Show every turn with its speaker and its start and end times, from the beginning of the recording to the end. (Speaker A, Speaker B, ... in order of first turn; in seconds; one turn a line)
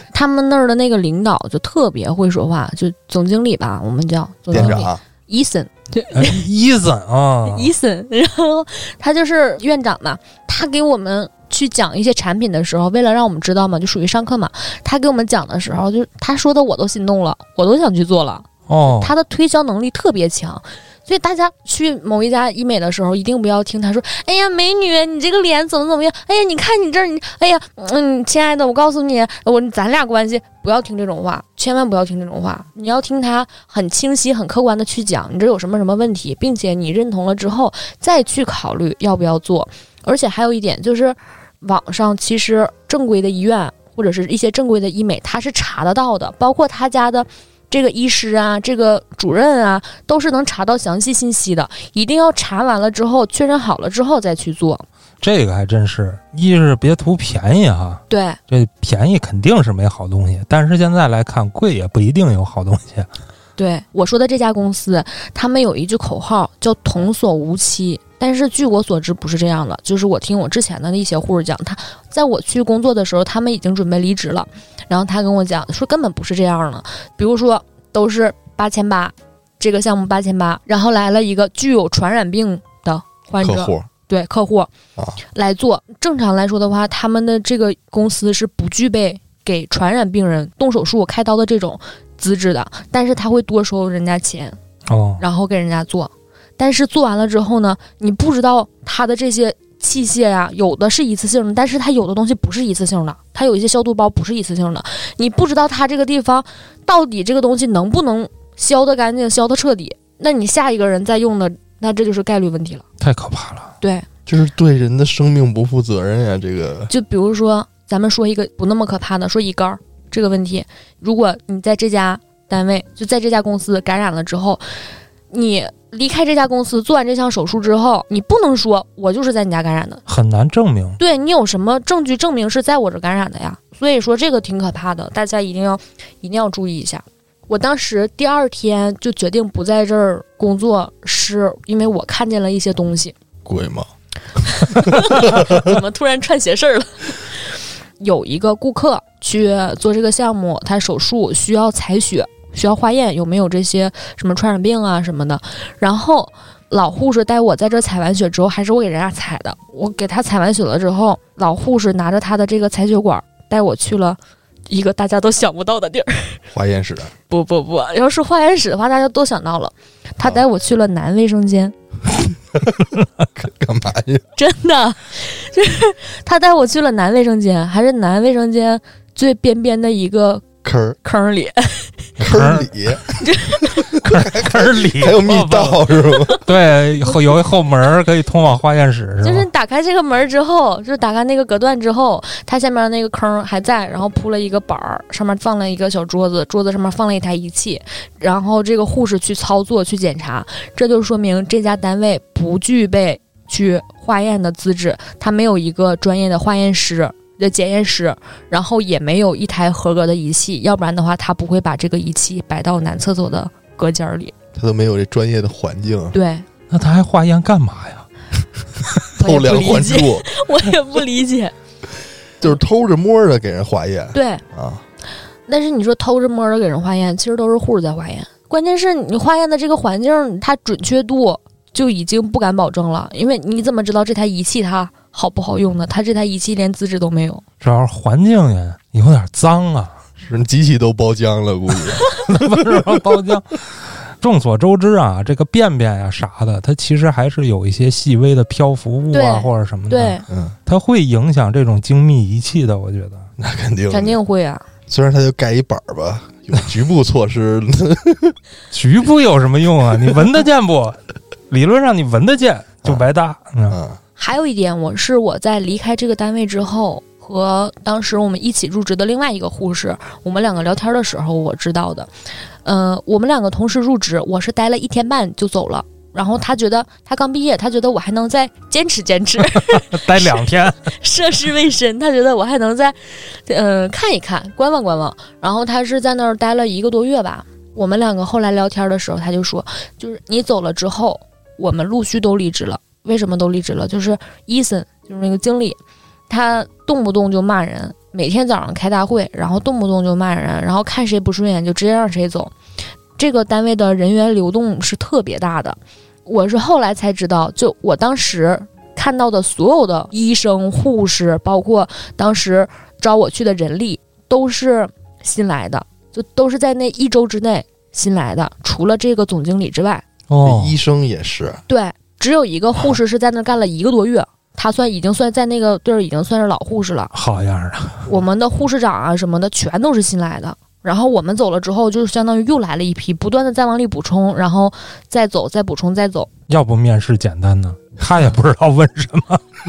Speaker A: 0.1-6.4
Speaker B: 4.5-5.0
Speaker C: 4.5-4.8
Speaker C: 6.1-7.7
Speaker A: 7.5-54.9
Speaker C: 18.7-19.1
Speaker C: 55.2-63.1
Speaker A: 58.1-58.4
Speaker A: 63.6-84.7
Speaker B: 83.4-83.9
Speaker A: 85.3-94.6
Speaker C: 94.9-95.2
Speaker A: 95.2-112.8
Speaker C: 113.0-113.7
Speaker A: 113.8-114.1
Speaker B: 114.3-116.9
Speaker A: 116.9-130.0
Speaker C: 130.1-131.0
Speaker A: 131.0-143.2
Speaker B: 143.4-143.9
Speaker B: 144.4-145.6
Speaker A: 144.4-166.4
Speaker B: 166.5-167.1
Speaker A: 167.3-171.8
Speaker B: 173.3-174.2
Speaker A: 174.4-180.4
Speaker B: 180.6-181.0
Speaker A: 181.0-182.0
Speaker C: 182.2-182.7
Speaker B: 182.2-186.4
Speaker A: 183.2-183.9
Speaker C: 184.0-189.5
Speaker A: 186.1-186.4
Speaker A: 189.2-214.3
Speaker B: 214.6-216.2
Speaker A: 216.1-216.5
Speaker C: 216.7-218.1
Speaker A: 219.2-221.5
Speaker B: 219.2-220.3
Speaker B: 222.4-224.8
Speaker A: 224.1-224.4
Speaker A: 225.5-237.4
Speaker C: 237.6-240.0
Speaker B: 240.2-242.1
Speaker C: 242.1-253.3
Speaker A: 249.1-250.2
Speaker B: 250.3-250.5
Speaker B: 253.4-254.2
Speaker A: 253.9-254.7
Speaker B: 254.9-258.4
Speaker C: 258.7-261.0
Speaker C: 261.5-263.8
Speaker B: 263.7-264.0
Speaker A: 264.2-272.1
Speaker A: 272.6-295.8
Speaker C: 279.6-280.9
Speaker A: 296.3-302.5
Speaker A: 303.2-320.0
Speaker C: 320.3-320.8
Speaker B: 320.4-321.6
Speaker A: 321.7-327.1
Speaker C: 327.1-328.1
Speaker A: 328.1-336.3
Speaker C: 336.5-339.4